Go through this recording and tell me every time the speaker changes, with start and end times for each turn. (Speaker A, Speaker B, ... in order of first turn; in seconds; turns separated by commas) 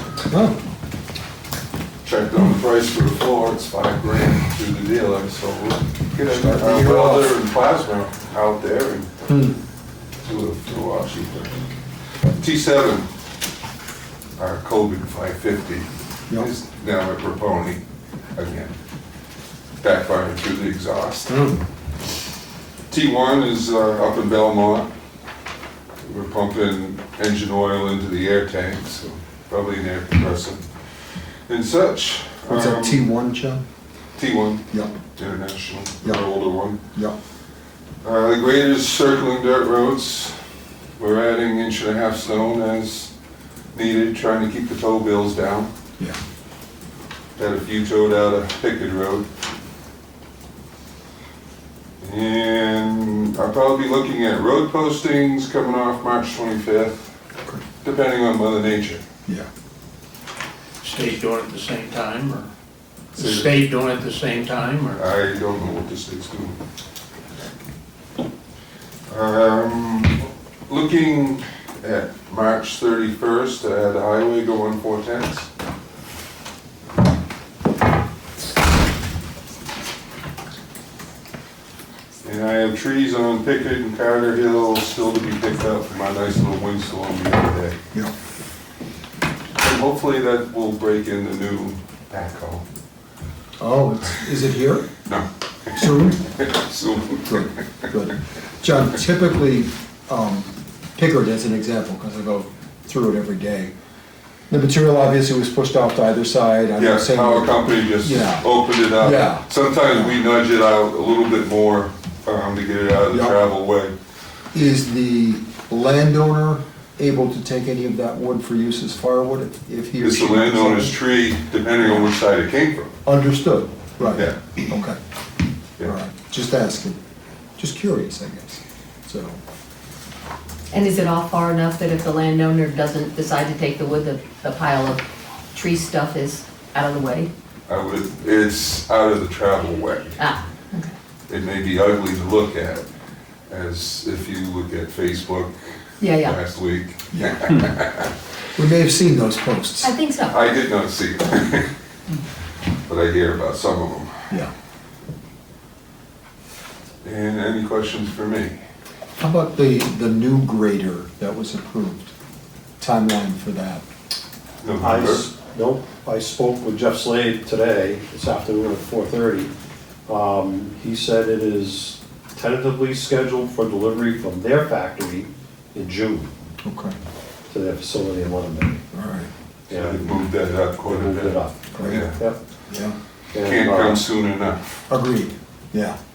Speaker A: 0.3-0.6, Speaker B: 2.0-9.1, Speaker A: 6.3-7.3, Speaker A: 9.3-9.6, Speaker B: 10.2-11.5, Speaker B: 12.3-13.1, Speaker B: 14.4-17.8, Speaker B: 18.4-18.7, Speaker B: 19.8-21.3, Speaker A: 21.2-21.6, Speaker B: 22.9-24.9, Speaker B: 26.0-33.0, Speaker A: 32.5-33.6, Speaker B: 34.1-36.8, Speaker B: 38.0-40.4, Speaker B: 41.0-43.1, Speaker B: 43.7-45.7, Speaker B: 47.4-49.3, Speaker B: 52.0-57.1, Speaker B: 57.8-59.0, Speaker C: 60.8-62.5, Speaker C: 63.1-65.1, Speaker B: 63.2-63.6, Speaker B: 65.0-66.6, Speaker B: 69.1-75.5, Speaker B: 82.2-87.8, Speaker B: 89.6-92.6, Speaker A: 93.6-94.9, Speaker A: 95.7-96.3, Speaker B: 96.3-97.3, Speaker A: 97.1-103.7, Speaker A: 104.5-110.2, Speaker B: 106.8-113.9, Speaker A: 113.1-113.4, Speaker A: 114.5-121.0, Speaker B: 120.0-122.9, Speaker A: 123.0-125.0, Speaker B: 124.0-124.6, Speaker A: 125.8-127.0, Speaker A: 127.6-129.4, Speaker D: 130.7-137.3, Speaker B: 137.7-140.2, Speaker D: 140.2-140.9, Speaker B: 141.3-142.9, Speaker B: 143.5-148.1, Speaker D: 146.0-146.4, Speaker A: 147.1-147.6, Speaker A: 148.5-149.9, Speaker D: 149.8-150.3, Speaker B: 150.3-151.7, Speaker B: 152.9-154.3, Speaker B: 157.0-158.6, Speaker A: 159.2-162.1, Speaker A: 162.8-163.8, Speaker B: 164.6-165.3, Speaker E: 164.8-169.5, Speaker E: 170.1-176.3, Speaker A: 176.6-176.9, Speaker E: 177.5-178.8, Speaker A: 178.9-179.3, Speaker E: 179.7-180.2, Speaker B: 179.7-182.2, Speaker E: 180.8-182.4, Speaker A: 181.7-182.9, Speaker E: 183.3-184.0, Speaker B: 183.4-184.8, Speaker A: 184.9-186.0